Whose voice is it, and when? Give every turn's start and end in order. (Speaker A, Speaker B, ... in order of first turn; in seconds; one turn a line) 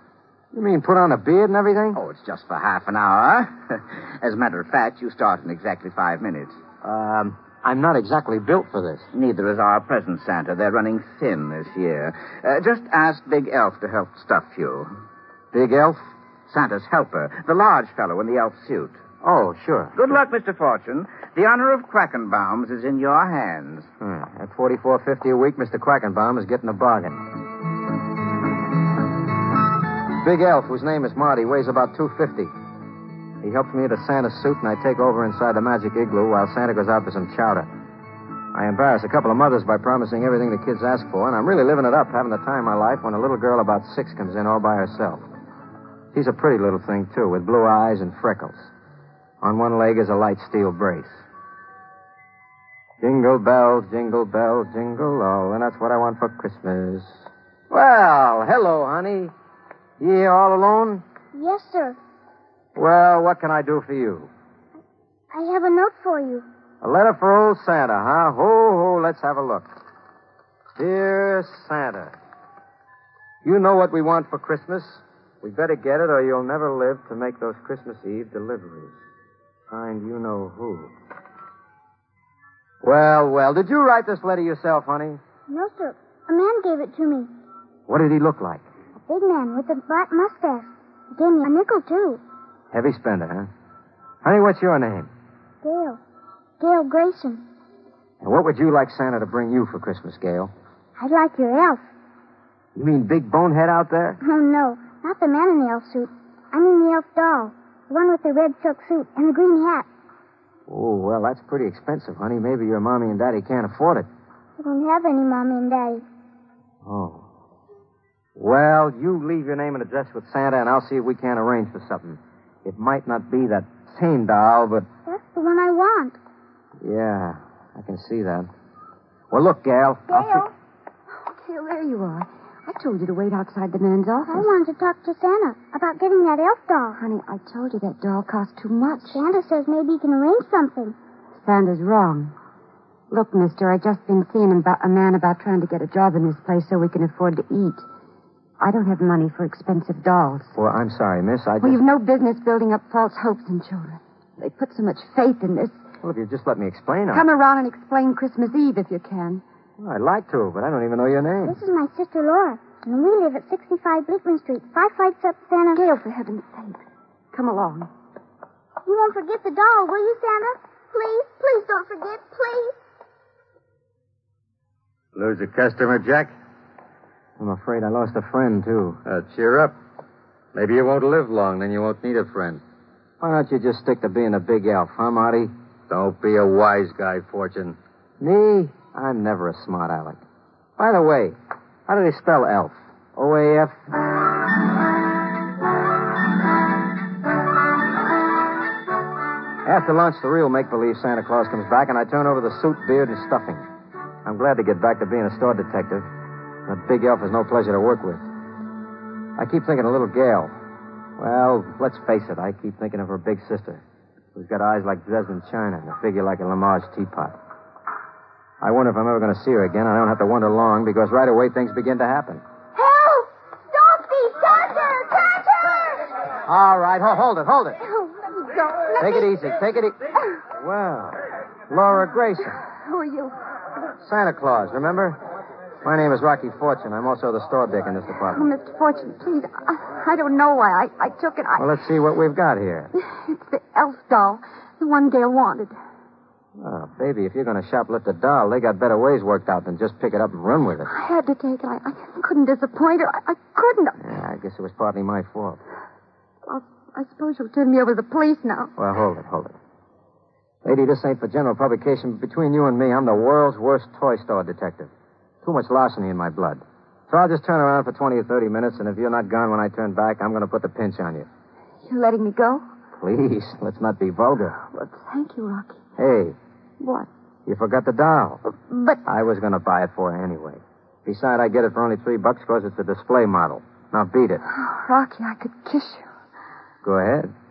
Speaker A: 0.5-2.0
Speaker B: 1.9-6.6
Speaker A: 6.8-9.1
Speaker B: 9.1-14.9
Speaker A: 15.5-16.0
Speaker B: 16.5-19.0
Speaker A: 19.2-20.0
Speaker B: 19.9-23.9
Speaker A: 24.0-27.2
Speaker A: 30.2-32.5
Speaker A: 33.4-37.7
Speaker A: 38.5-45.2
Speaker A: 46.1-48.7
Speaker A: 49.4-51.2
Speaker A: 53.0-59.3
Speaker A: 60.0-61.0
Speaker C: 61.3-62.0
Speaker A: 62.8-64.3
Speaker C: 65.3-66.5
Speaker A: 66.8-69.7
Speaker A: 70.8-72.2
Speaker A: 73.4-79.0
Speaker A: 79.7-80.9
Speaker A: 82.8-85.2
Speaker C: 85.5-87.3
Speaker A: 87.9-88.7
Speaker C: 89.1-92.2
Speaker A: 92.7-93.5
Speaker A: 94.2-95.1
Speaker C: 95.6-96.0
Speaker C: 96.6-97.4
Speaker A: 98.2-100.5
Speaker C: 101.0-101.8
Speaker A: 102.8-104.2
Speaker C: 104.2-109.9
Speaker A: 110.7-114.1
Speaker C: 114.6-116.0
Speaker A: 116.8-117.2
Speaker A: 118.4-124.9
Speaker C: 125.1-126.2
Speaker A: 126.8-128.5
Speaker A: 129.3-130.5
Speaker C: 130.1-130.5
Speaker D: 131.1-134.5
Speaker C: 134.3-137.0
Speaker D: 136.9-139.2
Speaker C: 139.1-140.9
Speaker D: 141.4-142.3
Speaker D: 143.1-147.8
Speaker D: 148.6-150.5
Speaker A: 150.6-151.8
Speaker D: 151.6-155.8
Speaker A: 156.0-157.2
Speaker D: 157.1-159.4
Speaker A: 159.8-161.6
Speaker C: 161.5-165.8
Speaker D: 165.7-167.9
Speaker C: 168.9-172.8
Speaker E: 175.2-176.3
Speaker A: 177.4-179.0
Speaker E: 179.1-179.8
Speaker E: 180.5-182.6
Speaker A: 183.2-185.5
Speaker E: 185.9-187.8
Speaker A: 188.2-190.2
Speaker A: 190.8-191.4
Speaker A: 191.9-193.8
Speaker A: 199.7-203.7
Speaker A: 204.2-206.1
Speaker A: 206.7-208.2
Speaker A: 209.4-210.5
Speaker A: 211.2-213.8
Speaker A: 214.3-217.4
Speaker A: 218.6-222.4
Speaker C: 222.8-223.2
Speaker C: 223.8-225.8
Speaker D: 224.5-225.3
Speaker A: 226.5-227.8
Speaker D: 227.9-229.3
Speaker A: 229.0-230.0
Speaker A: 230.6-232.6
Speaker D: 232.6-233.4
Speaker A: 234.0-235.2
Speaker A: 235.8-238.5
Speaker D: 238.3-241.7
Speaker A: 241.6-242.9
Speaker D: 243.0-245.8
Speaker A: 246.6-250.9
Speaker D: 250.9-254.0
Speaker A: 254.0-255.6
Speaker D: 256.4-258.7
Speaker A: 258.8-259.6
Speaker A: 260.6-271.3
Speaker D: 271.8-272.6
Speaker A: 273.0-274.6
Speaker D: 274.7-275.8
Speaker A: 276.0-276.4
Speaker D: 276.8-277.1
Speaker A: 277.5-278.4
Speaker D: 278.5-279.0
Speaker A: 279.1-284.4
Speaker D: 284.5-286.1
Speaker A: 286.8-287.3